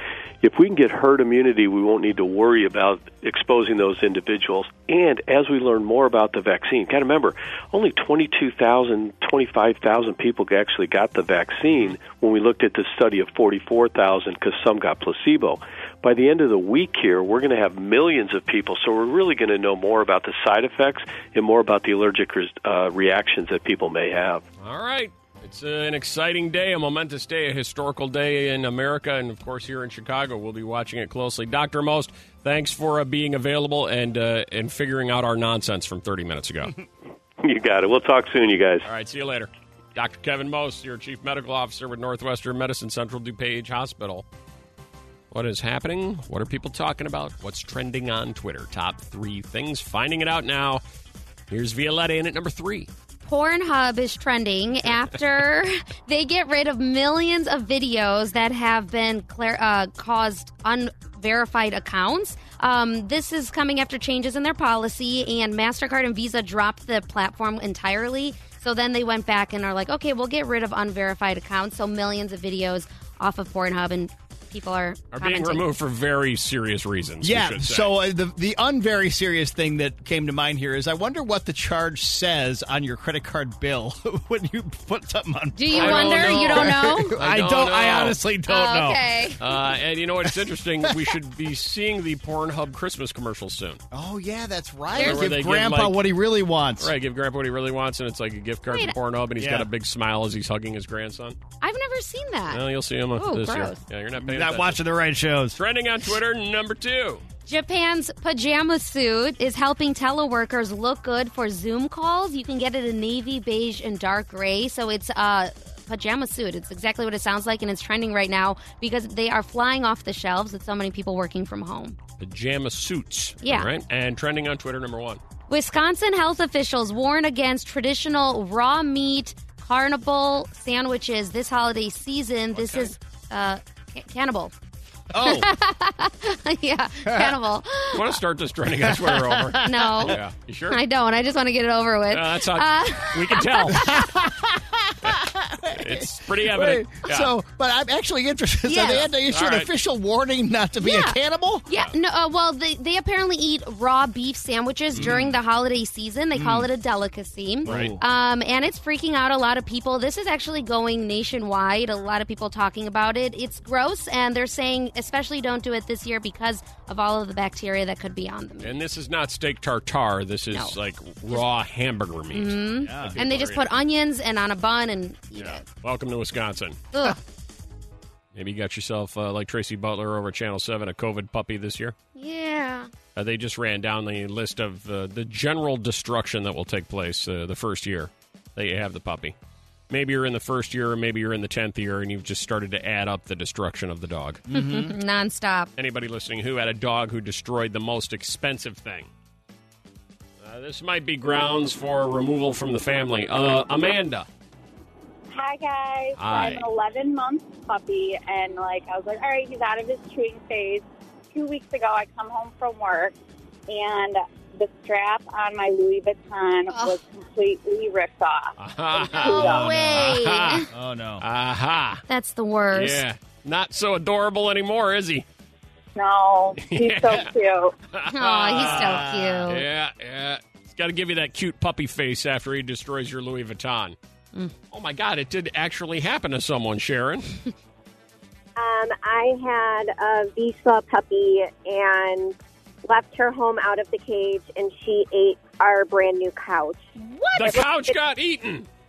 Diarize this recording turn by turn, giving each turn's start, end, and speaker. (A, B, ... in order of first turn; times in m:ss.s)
0:00.4-0:24.4 A
0:24.6-0:36.7 B
0:37.4-0:38.8 A
0:38.8-0:44.2 B
0:45.3-0:50.8 B
0:51.5-0:52.9 B
0:53.2-1:15.6 C
1:15.1-1:17.9 B
1:17.2-1:29.0 D
1:25.5-1:27.1 C
1:25.7-1:28.2 B
1:28.5-1:29.4 C
1:29.4-1:33.8 B
1:33.9-1:36.9 D
1:35.0-1:35.2 C
1:35.0-1:36.0 B
1:36.8-1:41.4 B
1:39.4-1:39.7 D
1:41.6-1:42.6 C
1:42.5-1:44.8 B
1:43.2-1:43.8 C
1:44.2-1:45.6 D
1:45.5-1:47.2 B
1:47.5-2:02.0 C
2:02.2-2:05.2 B
2:03.4-2:03.7 C
2:05.5-2:14.5 C
2:12.6-2:12.9 B
2:15.1-2:15.5 D
2:15.2-2:18.0 C
2:17.0-2:17.4 D
2:17.9-2:20.8 B
2:18.8-2:20.2 D
2:19.6-2:20.2 C
2:20.7-2:24.1 C
2:22.1-2:23.8 B
2:23.7-2:31.6 D
2:25.7-2:27.3 B
2:28.6-2:29.1 C
2:29.2-2:29.7 B
2:30.8-2:48.8 C
2:34.9-2:35.3 B
2:35.0-2:35.3 D
2:36.3-2:36.7 D
2:37.6-2:38.0 D
2:37.6-2:37.9 B
2:48.6-2:53.6 B
2:52.3-2:55.6 C
2:52.8-2:53.2 D
2:55.4-2:56.8 B
2:58.3-3:01.9 B
3:02.1-3:02.9 C
3:03.1-3:09.3 B
3:09.9-3:14.4 B
3:14.5-3:15.0 D
3:14.5-3:15.7 C
3:15.8-3:19.1 B
3:20.4-3:24.2 B
3:25.3-3:33.1 E
3:26.2-3:26.7 B
3:33.7-3:39.8 E
3:36.7-3:37.0 C
3:38.6-3:40.7 B
3:39.2-3:40.7 C
3:39.3-3:41.2 D
3:41.2-3:42.0 B
3:42.1-3:43.0 C
3:42.7-3:45.2 B
3:45.9-3:47.7 E
3:46.6-3:47.3 B
3:47.9-3:54.0 B
3:48.1-3:49.6 C
3:48.5-3:49.5 D
3:54.7-3:57.3 B
3:58.6-4:06.8 F
4:07.0-4:07.6 C
4:07.3-4:08.6 B
4:07.6-4:08.0 F